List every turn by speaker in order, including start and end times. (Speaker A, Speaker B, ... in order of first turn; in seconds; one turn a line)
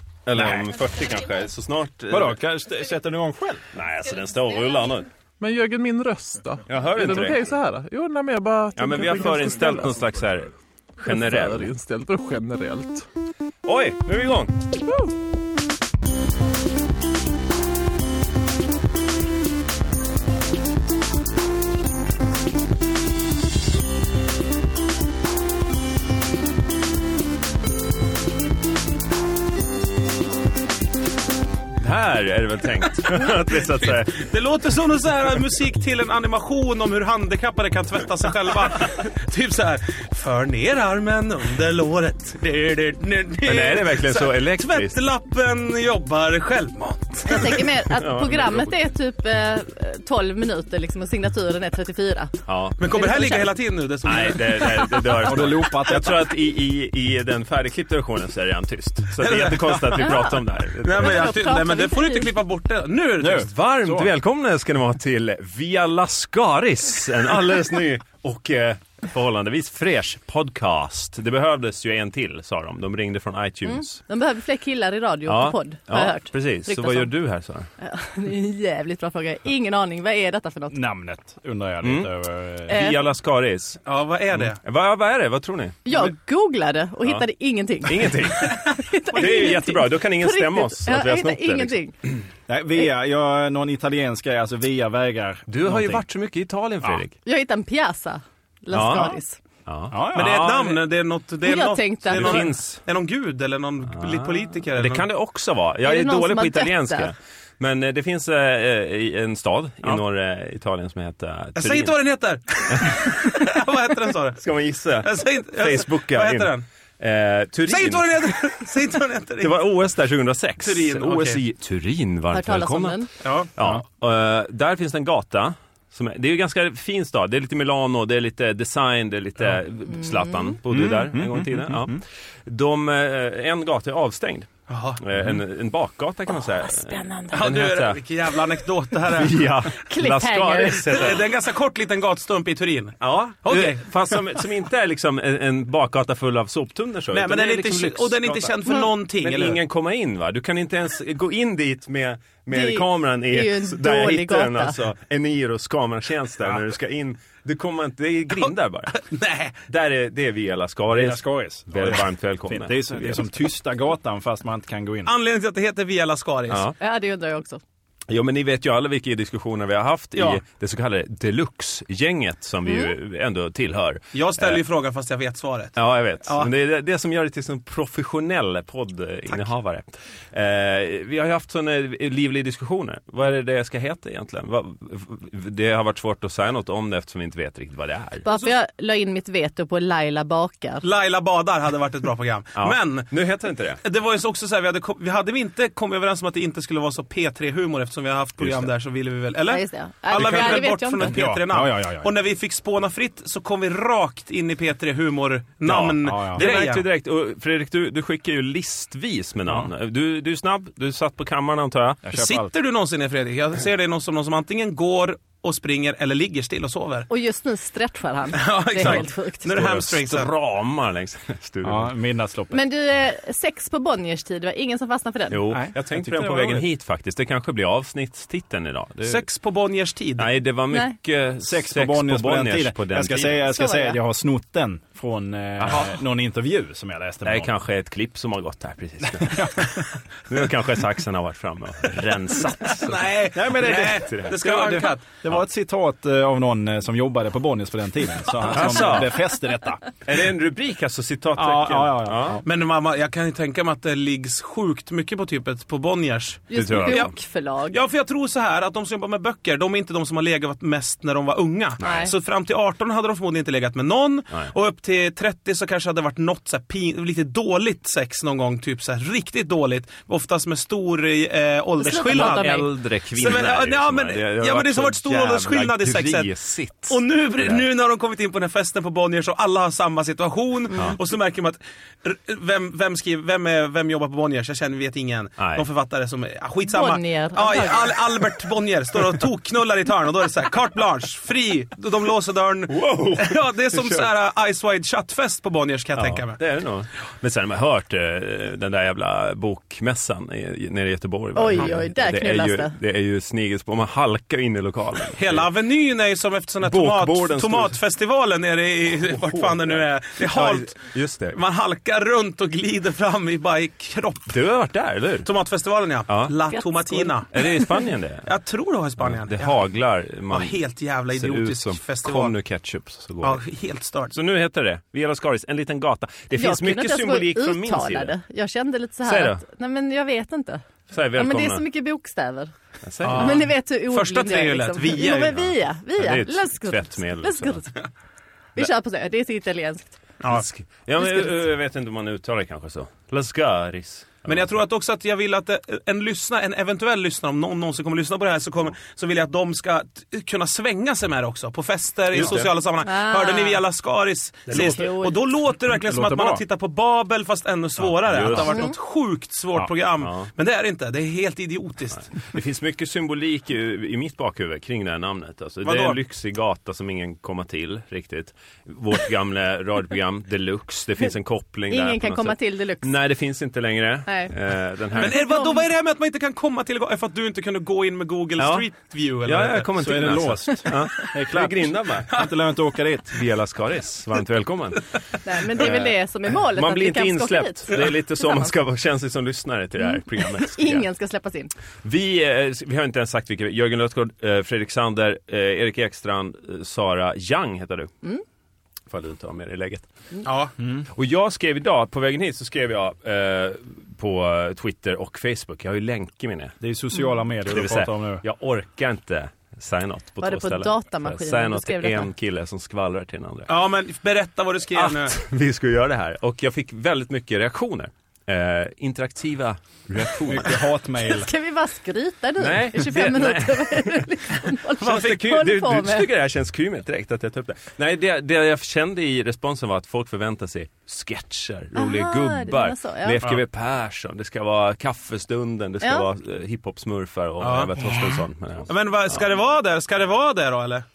Speaker A: 0.2-2.4
Speaker B: 0.3-0.7
Speaker B: 2.1-3.6
Speaker A: 3.7-5.1
Speaker C: 5.4-10.0
Speaker A: 6.7-7.5
Speaker A: 8.8-11.7
Speaker C: 11.0-13.0
Speaker A: 13.6-14.5
Speaker A: 31.8-34.3
Speaker D: 33.1-47.6
Speaker A: 43.5-45.0
Speaker E: 47.3-53.5
Speaker A: 47.9-48.7
Speaker A: 52.5-52.8
Speaker D: 52.8-54.8
Speaker A: 54.0-61.3
Speaker E: 54.5-55.4
Speaker B: 55.2-56.2
Speaker D: 59.2-60.0
Speaker E: 59.9-60.4
Speaker D: 60.8-63.5
Speaker E: 60.9-62.3
Speaker B: 63.2-64.1
Speaker A: 63.2-74.0
Speaker E: 73.6-77.1
Speaker A: 75.2-77.7
Speaker E: 77.8-80.8
Speaker B: 80.7-82.8
Speaker A: 81.8-82.1
Speaker A: 82.6-83.8
Speaker E: 82.7-83.0
Speaker D: 83.8-84.6
Speaker A: 84.3-85.8
Speaker E: 85.8-91.9
Speaker A: 87.8-91.8
Speaker B: 92.5-96.0
Speaker A: 95.5-97.2
Speaker E: 97.2-99.4
Speaker A: 98.7-100.8
Speaker B: 99.9-100.6
Speaker D: 100.1-105.0
Speaker E: 101.4-102.5
Speaker A: 102.1-102.8
Speaker A: 103.9-112.0
Speaker E: 105.8-107.1
Speaker D: 111.5-114.4
Speaker A: 112.7-113.3
Speaker A: 114.4-118.2
Speaker D: 115.0-116.7
Speaker D: 117.7-119.5
Speaker A: 119.4-138.0
Speaker D: 120.6-121.4
Speaker E: 122.3-123.1
Speaker D: 123.2-123.5
Speaker E: 129.9-130.5
Speaker B: 130.7-132.0
Speaker D: 134.7-135.0
Speaker E: 136.7-137.5
Speaker D: 137.3-139.5
Speaker A: 139.1-141.3
Speaker E: 139.8-141.2
Speaker D: 140.9-143.9
Speaker A: 143.0-158.9
Speaker D: 147.1-149.6
Speaker E: 152.5-154.7
Speaker D: 158.4-159.6
Speaker A: 159.7-163.3
Speaker B: 160.9-165.1
Speaker D: 165.0-166.7
Speaker A: 166.5-166.8
Speaker E: 166.8-167.6
Speaker A: 168.1-174.6
Speaker D: 170.2-170.4
Speaker E: 172.6-172.9
Speaker D: 174.1-176.5
Speaker A: 175.8-188.2
Speaker E: 188.2-190.8
Speaker D: 188.3-188.5
Speaker D: 190.8-193.1
Speaker A: 192.6-193.8
Speaker D: 193.8-206.8
Speaker A: 198.4-198.7
Speaker E: 199.5-201.2
Speaker B: 201.0-202.1
Speaker A: 205.7-212.0
Speaker B: 206.0-206.4
Speaker B: 212.0-212.5
Speaker D: 212.1-217.1
Speaker E: 217.1-219.6
Speaker D: 218.3-220.3
Speaker A: 219.5-221.9
Speaker B: 221.6-222.6
Speaker E: 222.5-225.5
Speaker A: 225.3-229.2
Speaker B: 225.5-226.7
Speaker D: 229.0-230.3
Speaker A: 230.2-233.5
Speaker B: 231.4-237.5
Speaker E: 233.4-234.0
Speaker A: 235.6-236.0
Speaker A: 237.2-244.8
Speaker B: 239.2-239.8
Speaker D: 242.7-245.0
Speaker B: 243.3-249.8
Speaker A: 248.4-249.1
Speaker A: 250.0-252.4
Speaker B: 251.3-252.4
Speaker D: 252.4-257.1
Speaker E: 256.5-257.8
Speaker A: 256.5-257.1
Speaker D: 257.7-276.3
Speaker E: 261.8-262.1
Speaker A: 261.8-262.1
Speaker E: 271.8-272.7
Speaker A: 271.9-277.6
Speaker D: 276.9-296.4
Speaker A: 285.4-285.6
Speaker E: 286.7-288.0
Speaker A: 292.7-294.1
Speaker A: 295.9-305.5
Speaker E: 301.3-302.7
Speaker D: 305.1-314.3
Speaker A: 306.6-307.8
Speaker A: 309.1-311.4
Speaker A: 314.3-315.3
Speaker D: 315.2-317.3
Speaker A: 316.1-316.3
Speaker E: 316.5-317.8
Speaker A: 317.3-318.3
Speaker D: 318.2-319.6
Speaker A: 319.0-323.4
Speaker D: 320.3-322.3
Speaker D: 323.2-324.1
Speaker A: 324.1-328.1
Speaker E: 326.4-332.5
Speaker A: 329.0-329.4
Speaker A: 330.9-331.6
Speaker A: 332.8-333.5
Speaker D: 333.0-335.4
Speaker E: 333.1-337.8
Speaker A: 335.0-337.6
Speaker E: 338.6-340.0
Speaker D: 340.2-340.4
Speaker A: 340.2-344.5
Speaker E: 341.0-341.3
Speaker D: 344.2-362.1
Speaker A: 352.1-352.5
Speaker E: 352.8-353.6
Speaker A: 354.5-354.8
Speaker E: 354.5-355.2
Speaker B: 355.6-356.4
Speaker B: 358.1-358.4
Speaker A: 358.1-358.6
Speaker E: 358.3-358.7
Speaker A: 360.0-360.3
Speaker A: 362.0-375.2
Speaker D: 365.6-366.0
Speaker E: 371.7-372.9
Speaker E: 374.1-374.3
Speaker E: 374.9-375.6
Speaker D: 374.9-379.7
Speaker A: 378.4-378.7
Speaker A: 379.2-382.1
Speaker B: 379.8-383.2
Speaker A: 383.1-390.9
Speaker E: 385.2-388.5
Speaker E: 389.8-391.5
Speaker A: 391.8-397.9
Speaker A: 398.9-399.9
Speaker D: 400.2-400.5
Speaker B: 400.6-400.8
Speaker A: 400.9-406.6
Speaker B: 406.6-408.2
Speaker A: 407.4-413.5
Speaker E: 410.2-412.1
Speaker D: 413.5-415.1
Speaker A: 414.7-420.6
Speaker B: 420.0-421.3
Speaker E: 421.0-426.1
Speaker A: 422.4-424.1
Speaker A: 424.8-438.7
Speaker E: 431.8-433.2
Speaker E: 435.8-436.1
Speaker D: 437.4-437.7
Speaker E: 437.8-438.2
Speaker D: 438.7-440.8